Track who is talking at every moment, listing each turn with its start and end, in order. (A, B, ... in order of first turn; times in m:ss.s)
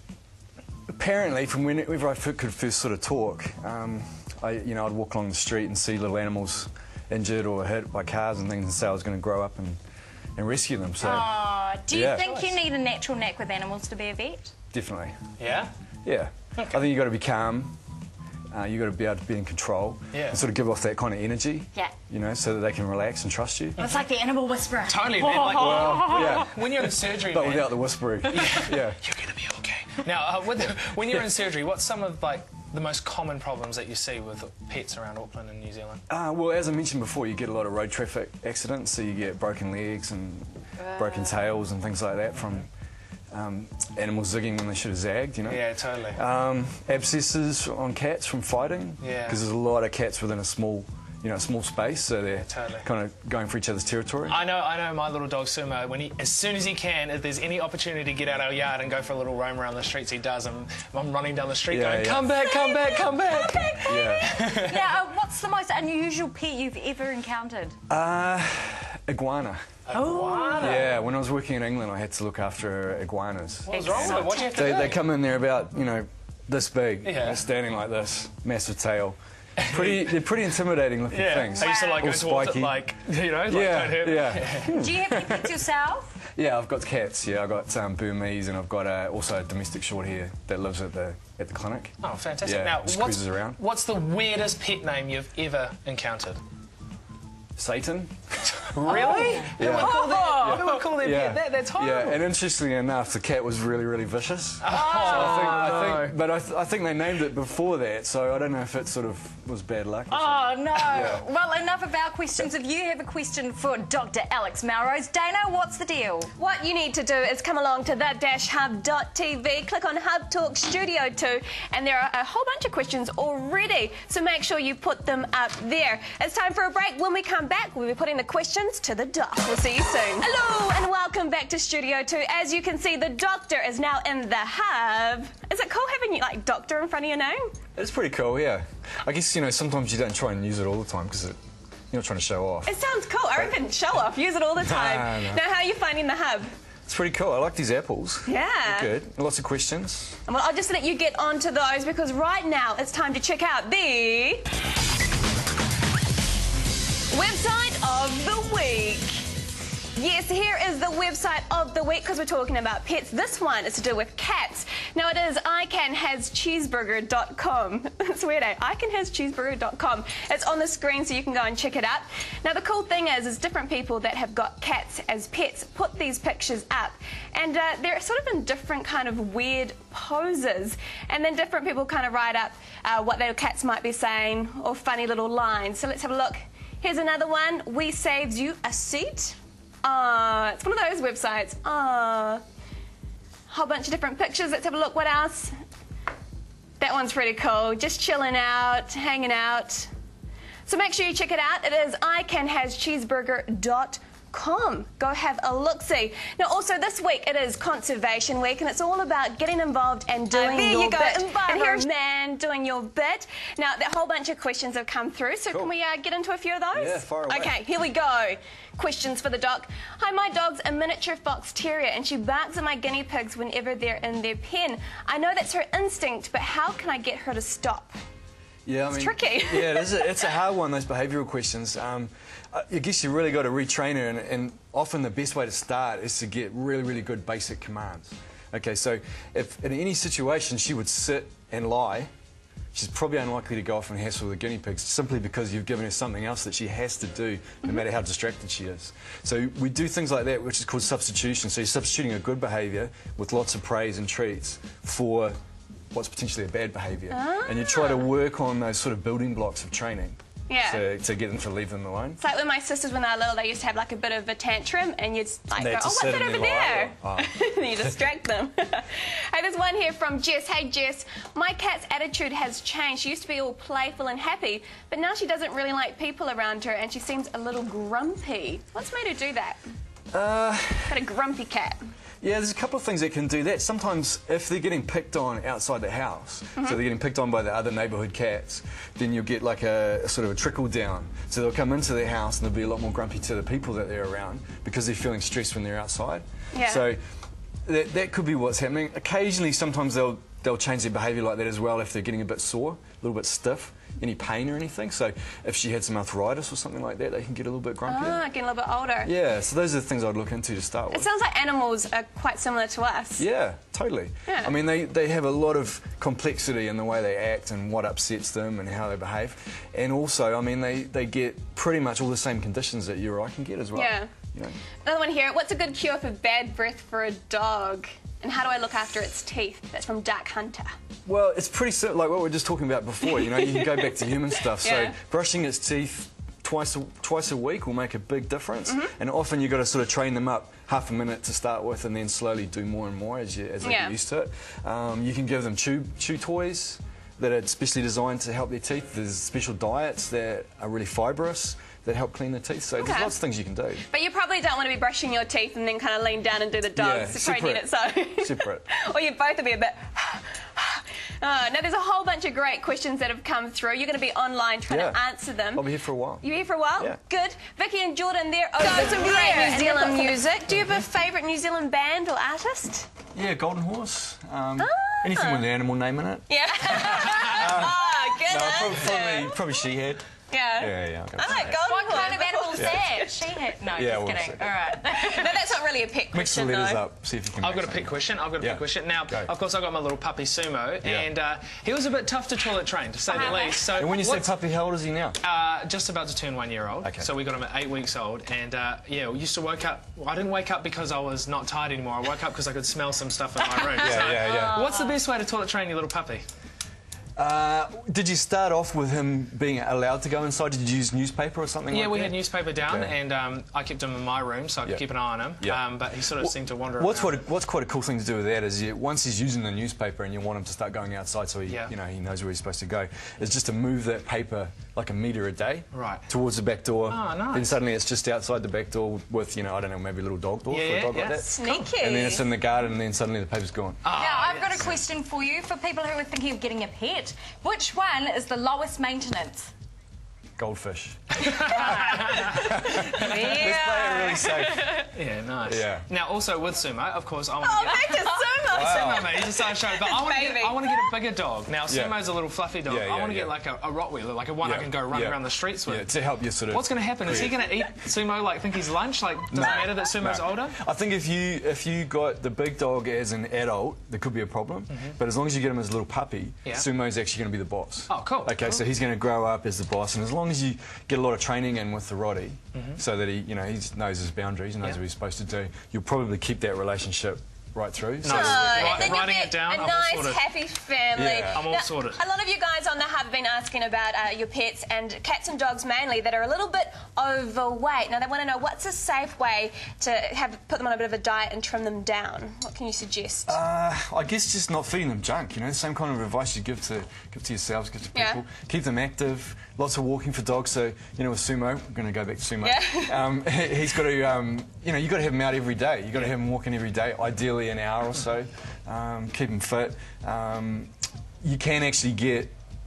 0:00.9-0:09.8 A
0:10.4-0:11.4 A
0:11.0-0:14.5 B
0:11.9-0:12.3 A
0:12.2-0:12.5 C
0:14.7-0:15.2 A
0:15.4-0:15.7 C
0:16.0-0:17.8 A
0:16.6-0:16.8 C
0:18.5-0:23.8 A
0:20.1-0:20.4 C
0:23.8-0:26.4 B
0:24.8-0:36.0 C
0:25.5-0:29.0 A
0:36.1-0:42.7 A
0:43.3-0:54.4 A
0:45.4-0:46.2 C
0:49.0-0:49.4 C
0:52.3-0:52.9 C
0:54.3-1:04.9 C
1:01.7-1:02.3 A
1:03.8-1:04.3 A
1:03.8-1:07.8 B
1:07.9-1:09.6 A
1:09.8-1:10.9 C
1:09.9-1:10.8 B
1:10.6-1:22.8 A
1:13.7-1:15.0 C
1:13.7-1:14.9 B
1:17.0-1:17.4 C
1:19.6-1:20.1 C
1:21.1-1:24.8 C
1:21.5-1:22.1 B
1:23.4-1:25.6 A
1:24.6-1:26.2 B
1:26.2-1:33.6 A
1:32.0-1:36.4 C
1:37.6-1:51.2 A
1:38.6-1:42.2 C
1:38.9-1:40.7 B
1:44.6-1:46.1 C
1:44.7-1:45.8 B
1:50.1-1:56.3 B
1:56.4-2:17.6 D
2:17.8-2:21.4 A
2:21.9-2:22.7 A
2:22.6-2:26.5 D
2:24.6-2:25.4 A
2:26.9-2:30.2 A
2:28.2-2:28.9 D
2:30.3-2:34.5 D
2:37.1-2:39.3 D
2:39.9-3:12.4 D
3:13.5-3:15.5 D
3:16.8-3:19.9 D
3:20.6-3:47.9 D
3:30.3-3:31.8 B
3:36.7-3:37.6 A
3:48.6-4:02.1 A
3:48.9-3:50.3 D
4:02.7-4:15.3 A
4:15.9-4:22.2 A
4:17.1-4:18.1 D
4:20.5-4:20.8 D
4:22.2-4:39.6 D
4:25.6-4:27.3 A
4:40.1-4:41.0 A
4:40.9-4:41.8 D
4:42.2-4:57.0 A
4:56.5-4:56.9 D
4:57.6-5:08.2 A
5:07.9-5:09.1 D
5:09.0-5:11.1 A
5:10.9-5:13.2 D
5:13.2-5:24.6 A
5:14.3-5:14.5 D
5:23.7-5:24.1 D
5:24.8-5:30.7 D
5:31.0-5:53.8 A
5:33.0-5:35.0 D
5:38.7-5:38.9 D
5:43.6-5:43.9 D
5:52.8-5:53.1 D
5:53.8-6:05.6 D
5:56.7-5:58.6 A
6:04.7-6:06.2 A
6:06.2-6:12.9 D
6:08.6-6:10.2 B
6:13.1-6:20.0 A
6:14.6-6:15.4 D
6:16.3-6:19.4 D
6:20.3-6:23.1 D
6:20.6-6:21.6 A
6:21.4-6:25.4 B
6:22.6-6:22.9 A
6:23.7-6:24.6 A
6:24.9-6:26.8 D
6:26.1-6:29.3 A
6:27.4-6:34.3 C
6:30.8-6:31.1 A
6:33.1-6:33.6 B
6:33.5-6:35.2 A
6:35.2-6:46.2 C
6:36.8-6:37.1 A
6:43.8-6:44.7 A
6:43.9-6:44.9 B
6:47.2-6:52.9 A
6:51.7-6:57.2 C
6:56.2-7:13.8 A
7:01.5-7:01.7 C
7:05.7-7:06.1 C
7:06.9-7:07.5 C
7:10.5-7:11.4 C
7:11.3-7:12.3 D
7:13.8-7:14.7 C
7:13.9-7:19.5 B
7:20.4-7:21.0 A
7:21.2-7:22.5 C
7:21.8-7:24.9 D
7:22.2-7:24.8 A
7:23.0-7:23.4 C
7:24.9-7:40.6 C
7:25.4-7:25.8 A
7:27.4-7:30.9 D
7:28.4-7:29.1 A
7:31.7-7:32.1 A
7:32.6-7:33.4 A
7:34.4-7:37.4 A
7:39.3-7:59.0 A
7:44.7-7:45.0 C
7:47.9-7:48.6 C
7:52.5-7:52.8 C
7:58.0-8:00.3 C
7:58.0-8:13.4 D
8:00.9-8:01.4 A
8:01.3-8:02.0 C
8:13.3-8:32.3 A
8:17.9-8:18.2 D
8:22.4-8:23.1 D